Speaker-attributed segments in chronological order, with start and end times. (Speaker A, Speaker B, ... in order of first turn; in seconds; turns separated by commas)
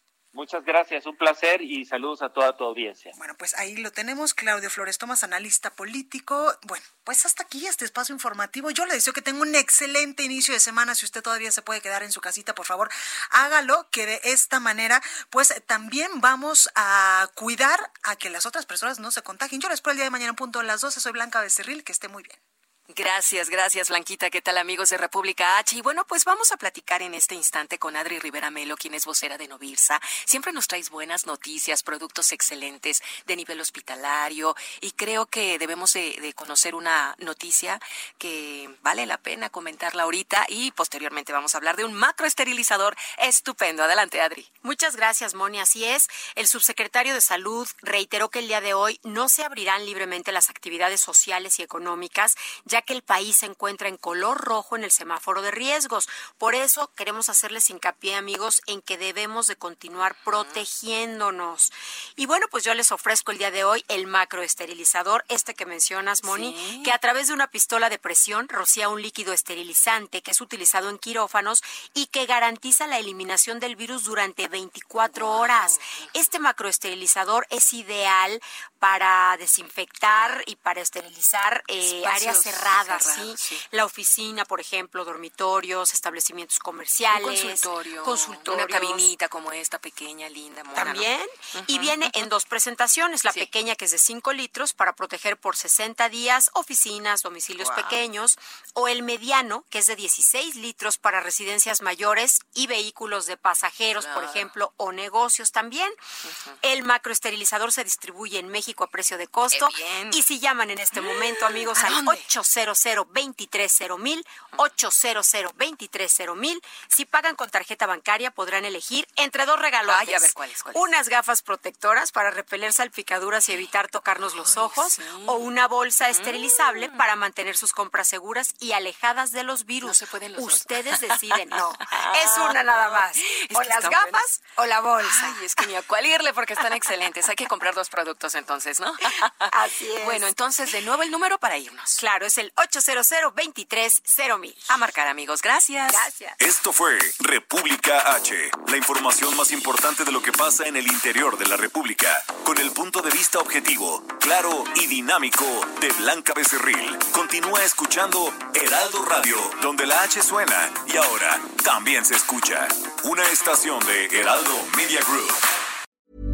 Speaker A: 0.3-3.1, Speaker B: 3.1-22.4, Speaker C: 22.9-44.5, Speaker D: 44.6-89.0, Speaker C: 60.0-60.7, Speaker C: 66.2-67.0, Speaker C: 75.0-76.2, Speaker C: 79.9-80.4, Speaker C: 81.8-83.7, Speaker C: 87.1-92.3, Speaker D: 90.7-106.0, Speaker C: 93.3-93.5, Speaker C: 97.5-98.1, Speaker C: 104.0-104.5, Speaker C: 106.2-106.5, Speaker D: 106.6-135.6, Speaker C: 109.5-110.2, Speaker C: 110.9-112.3, Speaker C: 119.8-120.9, Speaker C: 124.2-127.1, Speaker C: 129.8-142.0, Speaker D: 139.5-140.4, Speaker D: 142.0-144.6, Speaker C: 144.7-146.1, Speaker D: 145.9-146.3, Speaker E: 146.4-165.4